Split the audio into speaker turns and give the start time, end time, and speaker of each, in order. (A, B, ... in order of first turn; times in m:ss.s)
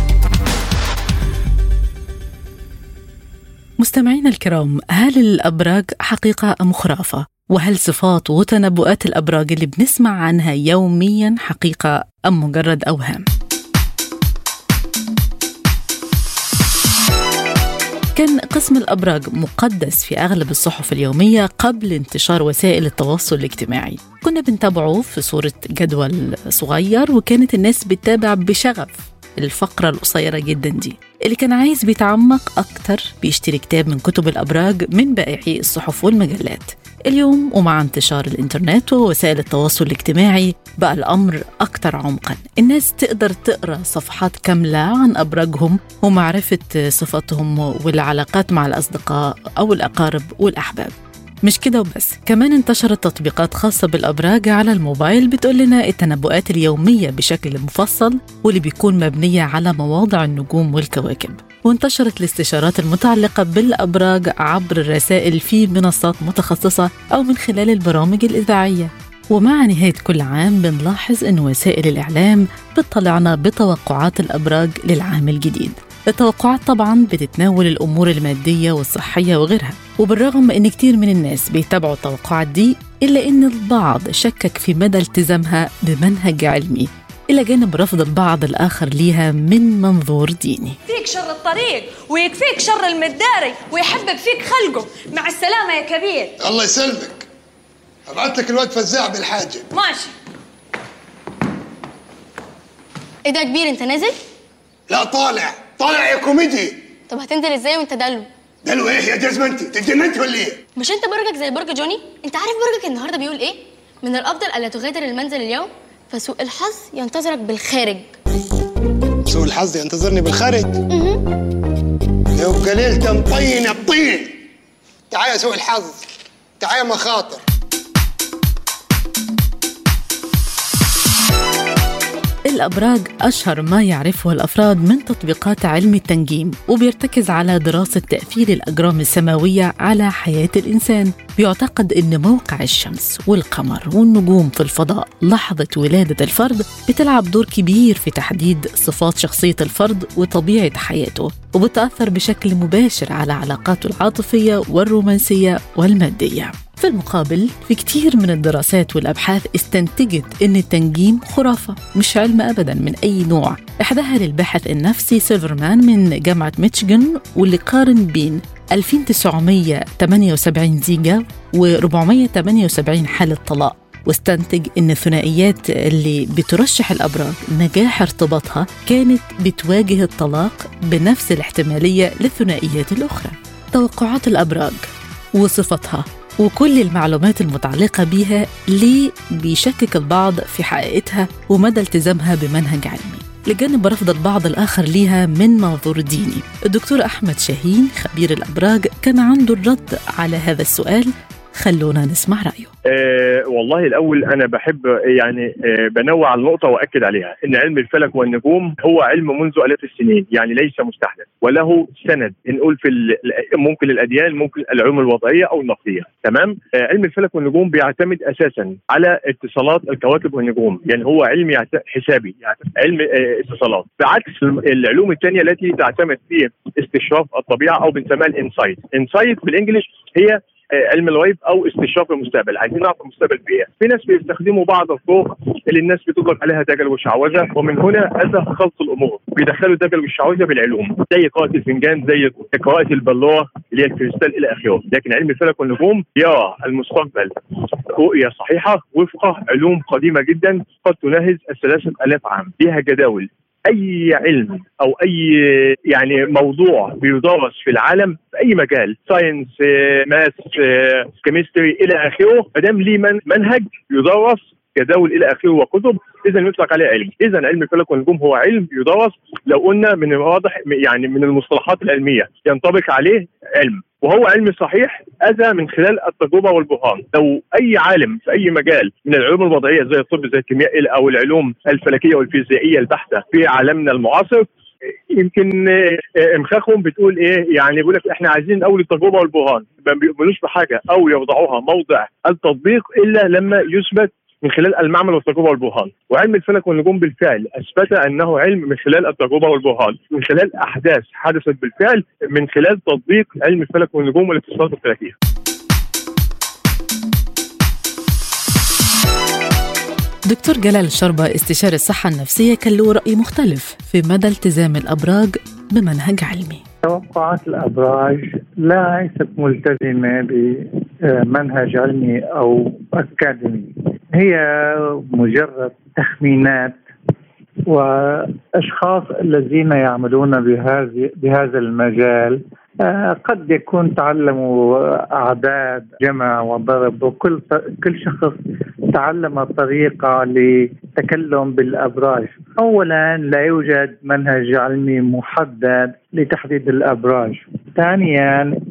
0:03.8-0:13.3 A
0:18.2-1:30.8 A
1:30.9-1:36.3 B
1:36.4-1:37.3 C
1:38.1-1:39.6 C
1:39.7-1:40.1 B
1:43.3-1:44.1 D
1:44.9-1:46.9 C
1:47.1-1:48.2 D
1:48.6-1:50.6 C
1:50.8-1:58.0 D
1:59.2-2:00.8 C
2:02.3-2:04.4 C
2:05.1-2:06.0 C
2:06.6-2:07.4 C
2:12.5-3:22.7 A
3:22.9-4:44.5 E
4:45.1-5:05.1 E
5:10.3-5:16.6 A
5:16.8-5:26.8 F
5:27.7-5:38.4 F
5:38.9-5:48.5 F